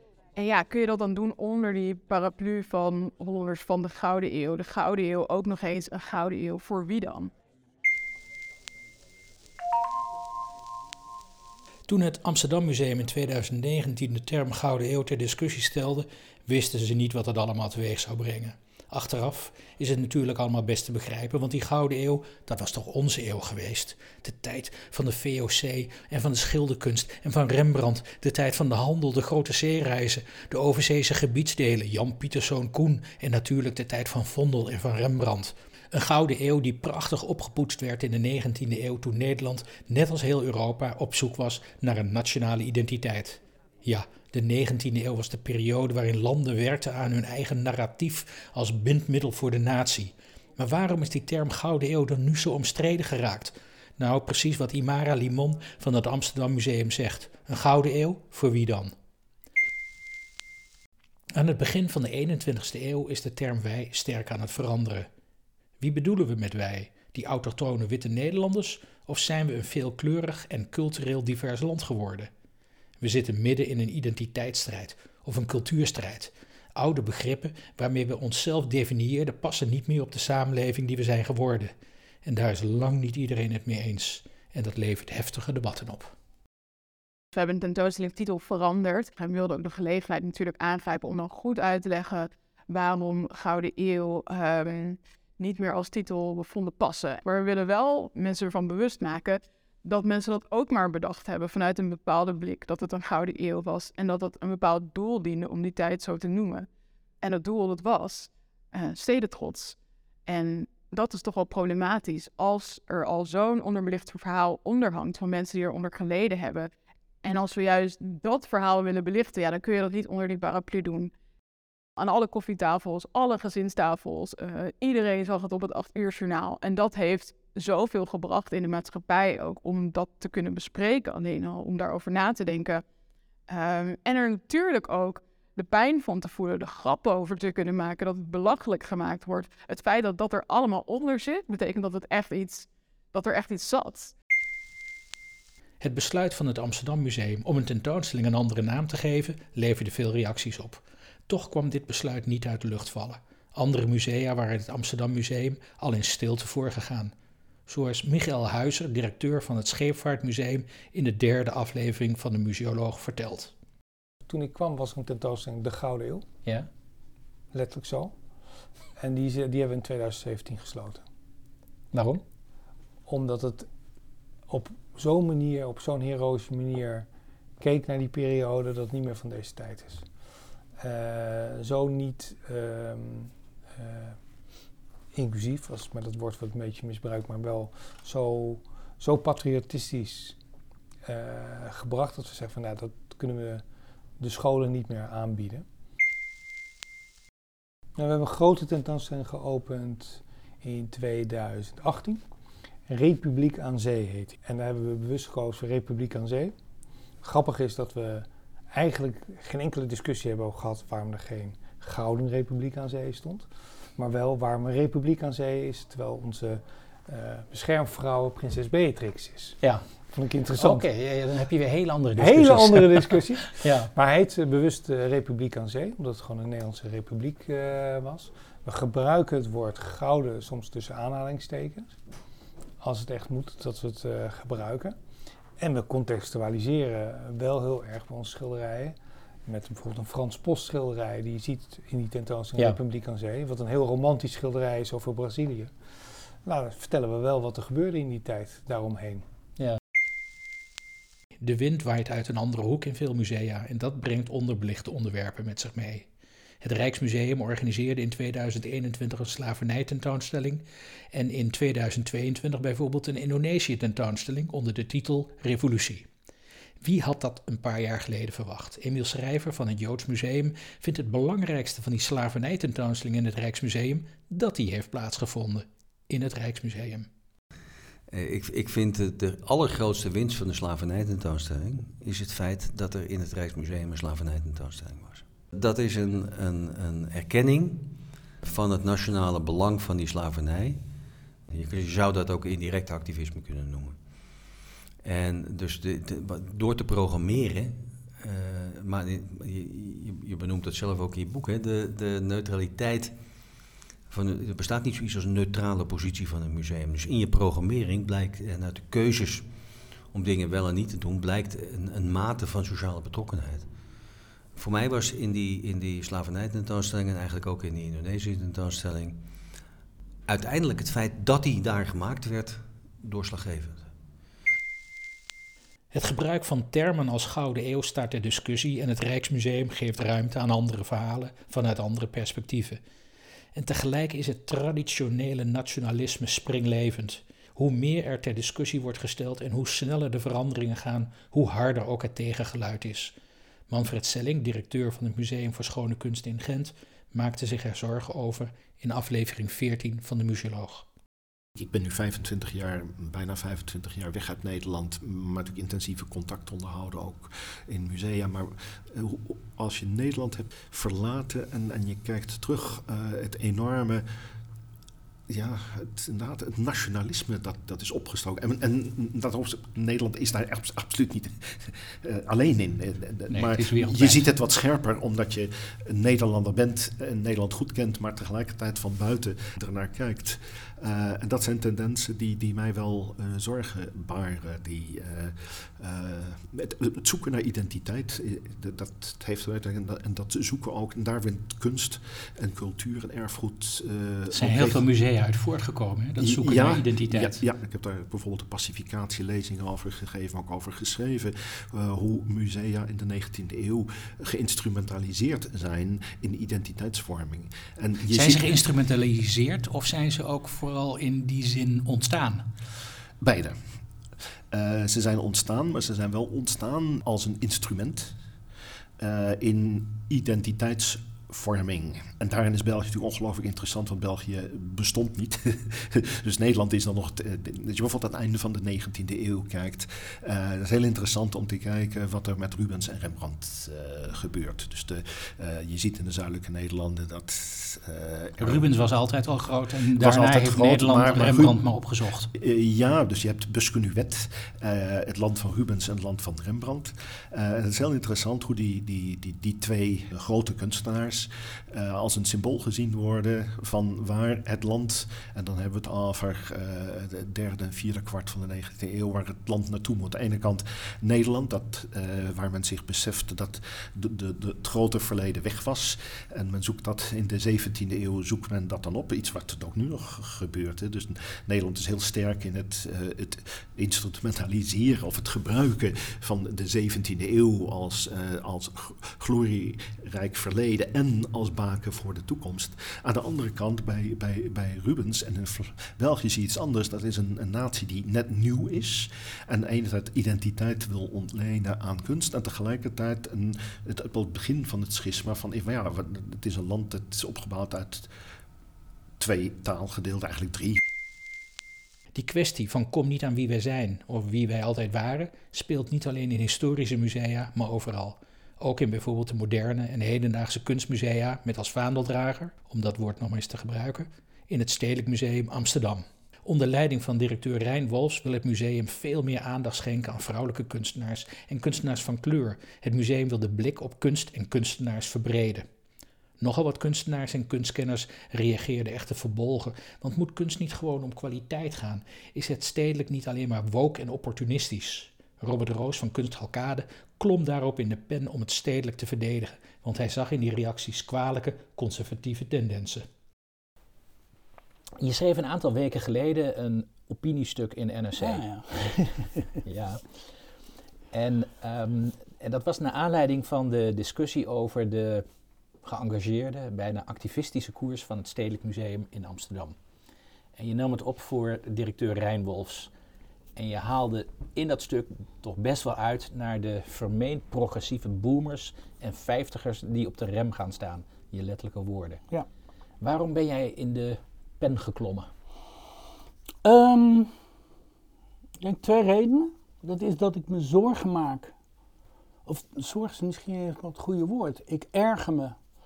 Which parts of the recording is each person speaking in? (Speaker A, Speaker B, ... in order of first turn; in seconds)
Speaker A: 0.4-7.3, 87.3-106.7, 107.2-116.7, 117.2-121.1, 122.0-132.8, 133.5-144.2
Speaker B: 11.9-58.9, 61.3-65.1, 65.8-72.3, 73.0-81.7, 82.2-86.1, 145.8-157.1, 157.7-163.5, 171.9-172.2, 220.6-223.9, 251.4-256.1, 256.6-266.1, 266.8-277.1, 325.9-332.8, 333.5-343.1, 343.7-350.9, 373.3-374.2, 394.3-397.4, 408.1-412.4, 438.4-442.3, 502.1-525.6, 526.4-543.0, 545.0-548.4, 549.6-550.0, 551.1-555.3, 555.8-559.8, 560.6-562.9, 563.5-572.2, 573.0-575.3
Speaker C: 164.3-166.3, 167.5-168.2, 169.0-171.1, 173.1-173.7, 174.5-177.1, 177.6-180.1, 180.8-184.2, 185.1-190.4, 191.1-193.6, 194.2-195.7, 198.0-202.2, 202.9-206.6, 207.2-219.6, 220.1-220.8, 222.2-232.0, 232.8-235.0, 235.6-245.7, 246.4-249.2
Speaker D: 278.1-290.8, 291.5-294.0, 295.0-303.2, 304.1-309.5, 310.1-313.7, 314.5-319.2, 320.3-323.9
Speaker E: 351.6-364.1, 365.3-394.8, 396.2-408.6, 413.2-413.6, 414.5-418.2, 419.0-438.7, 440.0-441.7, 442.3-498.1, 499.2-500.8
Speaker F: 548.2-549.4, 576.6-577.3, 578.6-581.5, 582.5-585.5